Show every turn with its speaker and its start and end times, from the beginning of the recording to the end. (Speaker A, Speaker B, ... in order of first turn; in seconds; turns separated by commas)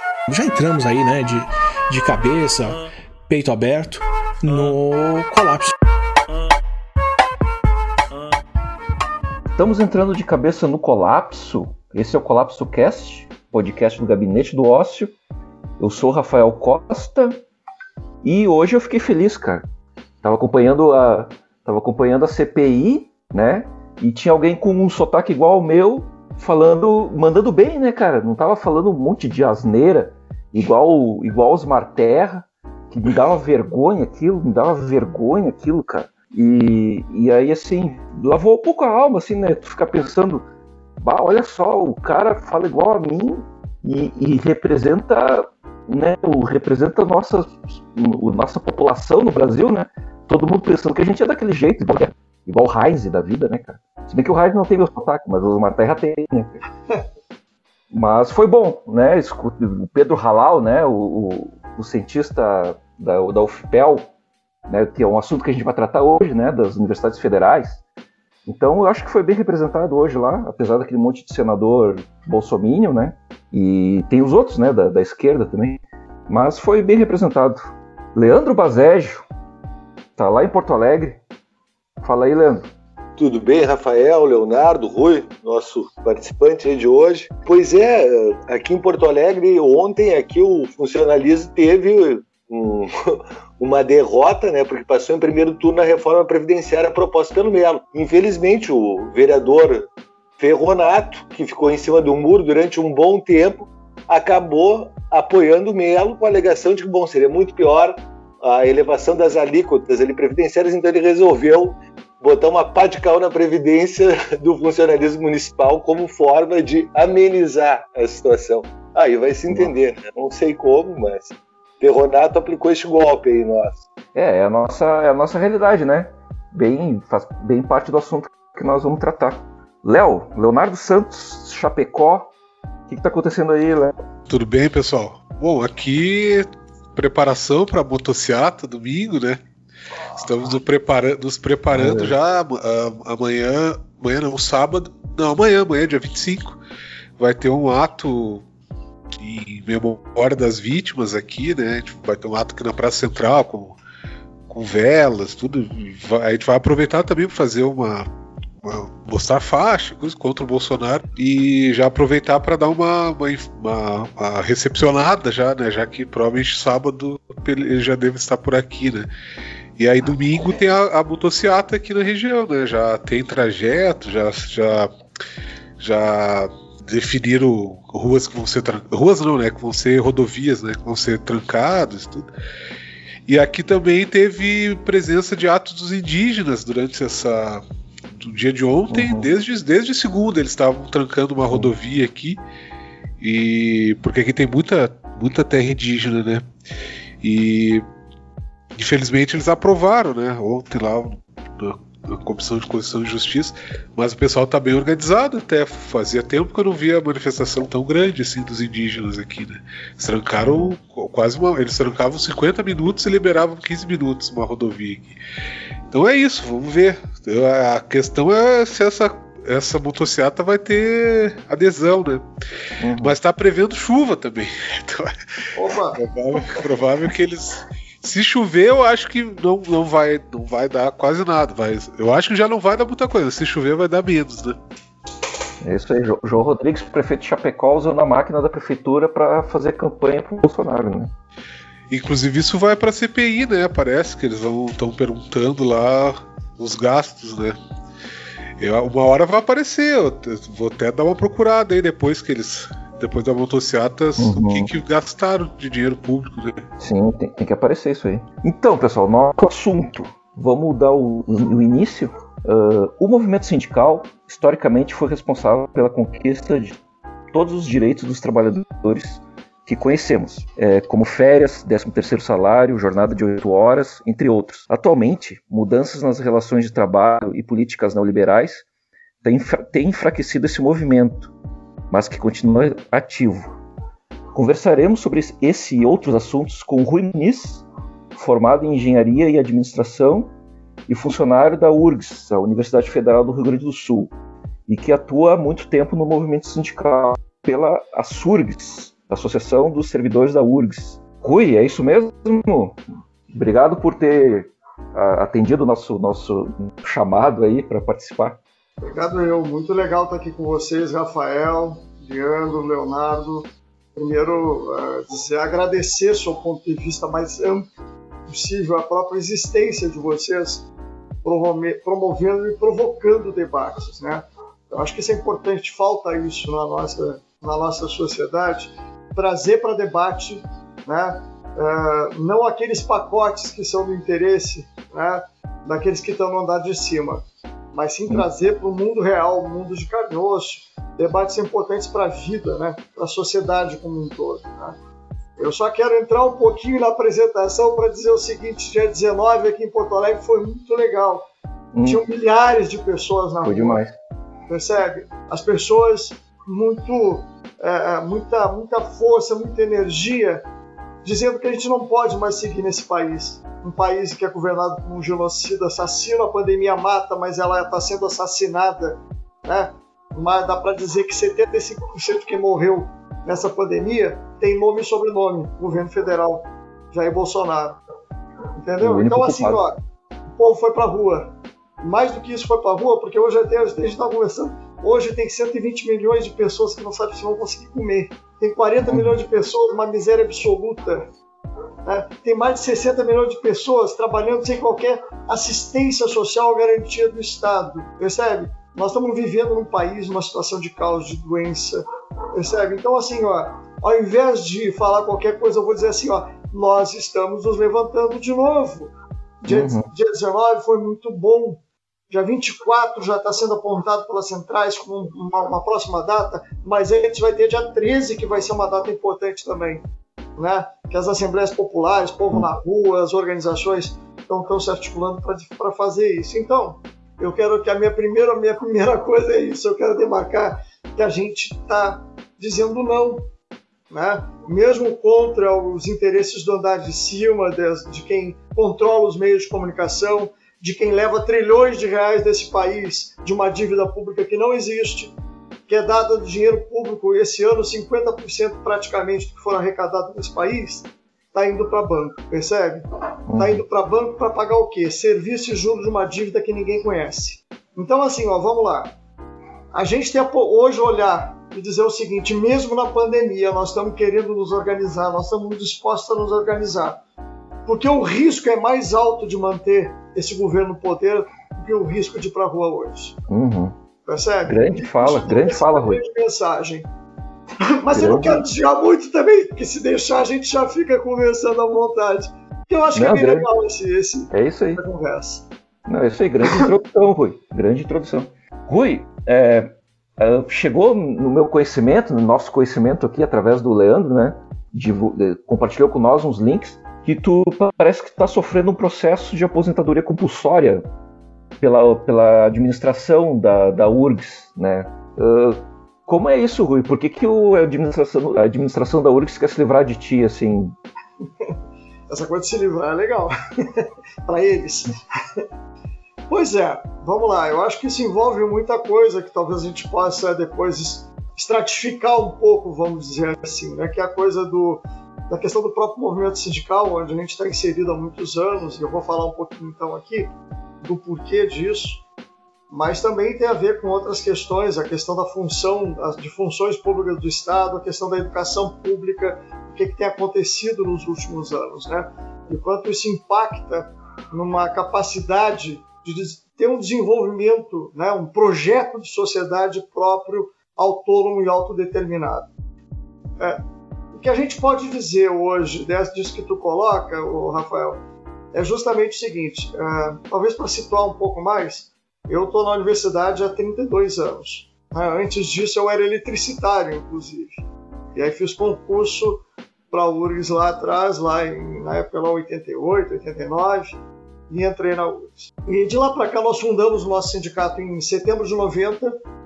Speaker A: 0.3-5.7, Speaker B: 9.6-15.1, Speaker B: 15.8-17.4, Speaker B: 18.2-19.6, Speaker B: 20.2-56.5, Speaker B: 57.9-64.1, Speaker B: 64.7-67.8, Speaker B: 68.5-79.3, Speaker B: 80.2-81.2, Speaker B: 82.0-82.7, Speaker C: 83.2-123.8, Speaker B: 119.5-119.7, Speaker B: 124.1-132.3, Speaker B: 132.9-133.9, Speaker D: 134.3-139.4, Speaker D: 140.1-146.6, Speaker B: 141.7-142.1, Speaker D: 147.2-148.4, Speaker D: 149.2-153.8, Speaker D: 154.5-158.1, Speaker D: 158.6-169.1, Speaker D: 169.8-174.9, Speaker D: 175.8-182.3, Speaker D: 183.3-187.6, Speaker D: 188.2-192.4, Speaker B: 188.9-189.3, Speaker D: 193.2-196.4, Speaker D: 197.2-197.8, Speaker D: 198.7-215.2, Speaker B: 210.5-210.7, Speaker D: 215.9-222.2, Speaker B: 222.8-223.2, Speaker D: 223.0-225.1, Speaker E: 225.5-226.0, Speaker D: 225.9-234.6, Speaker B: 235.6-241.1, Speaker D: 241.9-247.6, Speaker D: 248.6-256.7, Speaker B: 254.2-254.7, Speaker B: 256.8-266.8, Speaker B: 267.3-278.6, Speaker B: 279.2-281.3, Speaker B: 281.9-283.5, Speaker B: 284.3-290.3, Speaker B: 290.9-294.1, Speaker B: 294.7-302.8, Speaker B: 303.3-308.4, Speaker E: 308.8-317.7, Speaker E: 318.3-320.7, Speaker E: 321.2-344.8, Speaker E: 345.4-351.3, Speaker B: 351.7-352.0, Speaker E: 351.8-353.8, Speaker B: 353.4-353.9, Speaker E: 354.5-360.4, Speaker E: 361.0-377.8, Speaker E: 378.6-379.8, Speaker B: 378.8-379.6, Speaker E: 380.4-391.1, Speaker B: 388.8-389.2, Speaker E: 391.9-401.8, Speaker E: 402.3-419.8, Speaker B: 409.5-409.9, Speaker E: 420.4-433.3, Speaker E: 433.9-445.1, Speaker E: 445.7-458.9, Speaker B: 453.3-453.6, Speaker E: 459.7-467.0, Speaker E: 467.6-473.1, Speaker B: 473.3-473.7, Speaker E: 474.1-476.9, Speaker B: 474.4-476.0, Speaker E: 477.6-485.4, Speaker B: 477.9-478.4, Speaker B: 482.9-483.5, Speaker B: 484.3-484.8, Speaker B: 485.9-500.8, Speaker B: 501.6-510.8, Speaker E: 512.1-515.4, Speaker E: 516.3-530.3, Speaker E: 530.8-532.0, Speaker E: 532.7-552.5, Speaker E: 554.1-558.0, Speaker E: 558.5-567.6, Speaker E: 568.1-573.9, Speaker E: 574.5-579.1